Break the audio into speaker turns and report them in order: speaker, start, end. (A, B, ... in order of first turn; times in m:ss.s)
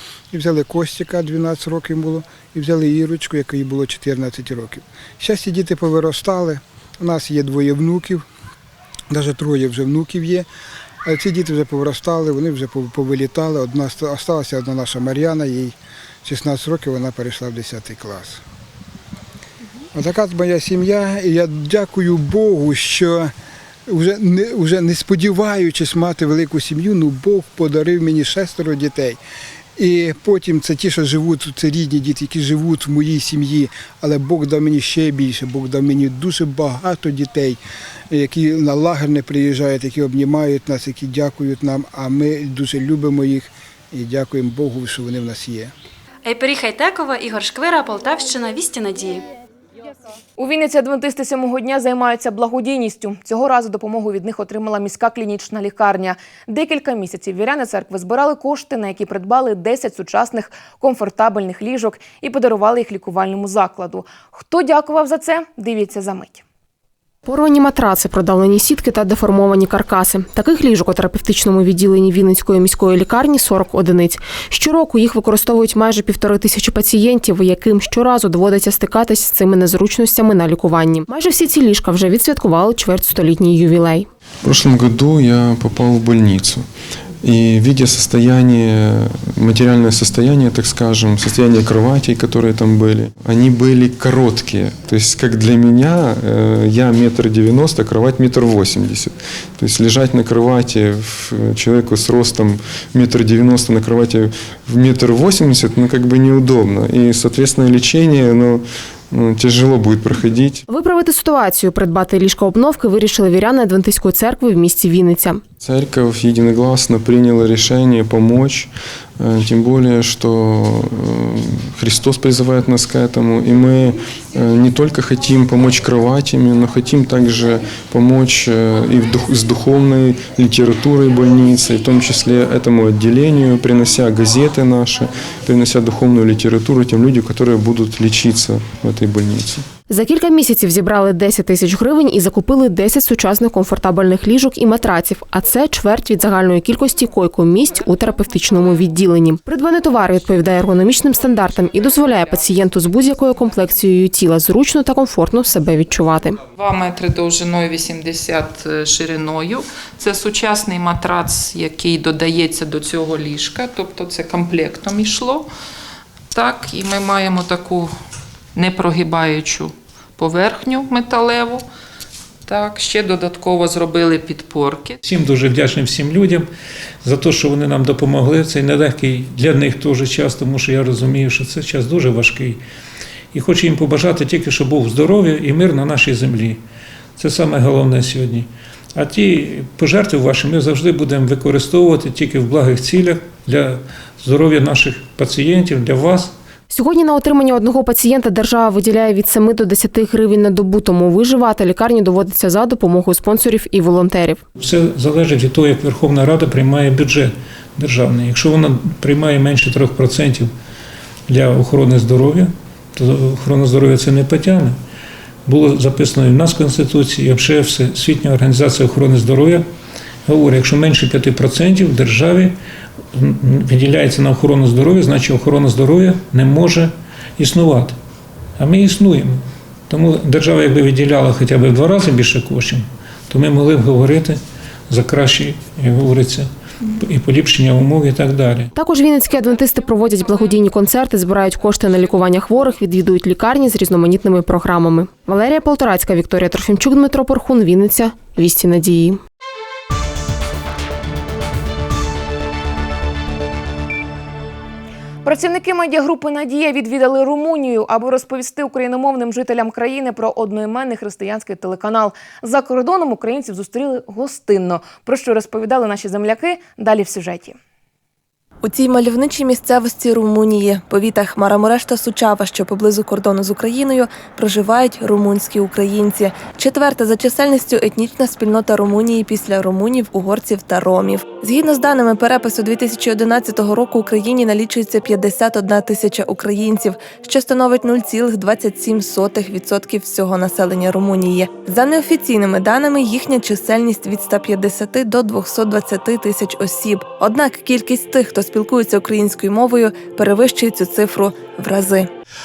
0:00.3-0:08.2 A
0:09.1-0:10.4 A
0:11.0-0:18.4 A
0:19.9-0:23.3 A
0:23.9-0:29.2 A
0:29.8-0:45.7 A
0:46.2-0:49.2 B
0:50.4-1:06.4 C
1:07.2-1:24.1 D
1:24.4-1:26.6 E
1:27.2-1:50.6 E
1:50.7-1:55.4 D
1:55.6-2:19.6 E
2:19.9-2:36.4 D
2:36.6-2:45.5 F
2:46.3-2:47.9 F
2:48.5-2:51.6 F
2:52.5-2:55.0 F
2:55.0-2:56.5 G
2:57.0-3:02.6 G
3:03.3-3:06.6 G
3:07.2-3:16.3 G
3:16.7-3:24.4 D
3:24.6-3:30.5 G
3:31.3-3:34.8 G
3:35.4-3:39.7 G
3:40.2-3:42.6 G
3:43.1-3:48.0 G
3:48.6-3:58.7 G
3:58.7-4:09.2 D
4:15.2-4:27.6 C
4:28.6-5:02.1 H